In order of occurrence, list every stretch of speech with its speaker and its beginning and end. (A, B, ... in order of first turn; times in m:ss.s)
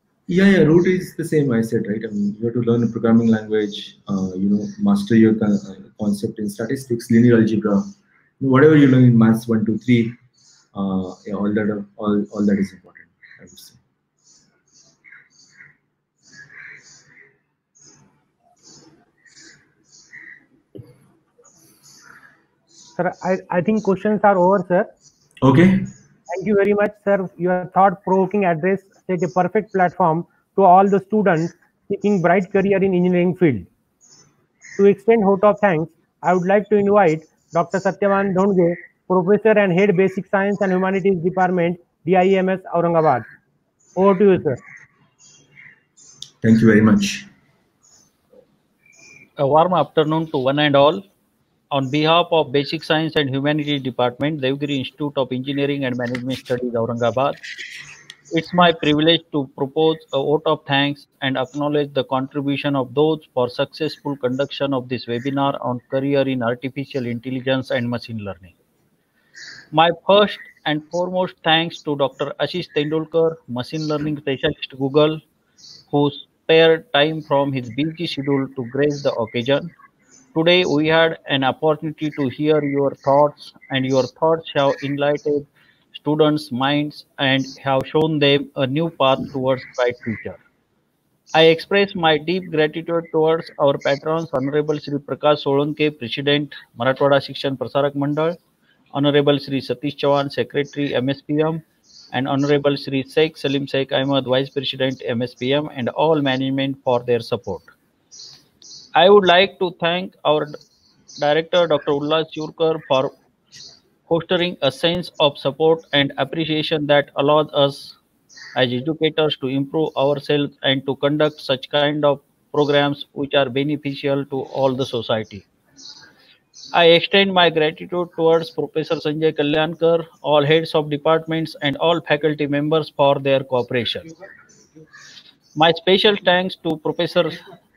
0:00.3-0:10.2 A
0:10.8-0:13.8 A
0:23.0-0:24.9 B
0:25.4-0:25.9 A
0:26.3-0:33.7 B
0:34.8-0:43.3 B
0:44.0-0:44.6 B
0:46.4-0:47.3 A
0:49.4-0:51.0 C
0:51.7-0:57.4 C
0:58.3-1:08.5 C
1:09.7-1:15.2 C
1:15.9-1:19.7 C
1:20.3-1:30.4 C
1:31.4-1:38.4 C
1:38.9-1:47.7 C
1:49.0-1:50.6 C
1:51.2-1:53.1 C
1:54.1-1:58.0 C
1:58.6-2:05.5 C
2:06.7-2:14.1 C
2:15.6-2:17.4 C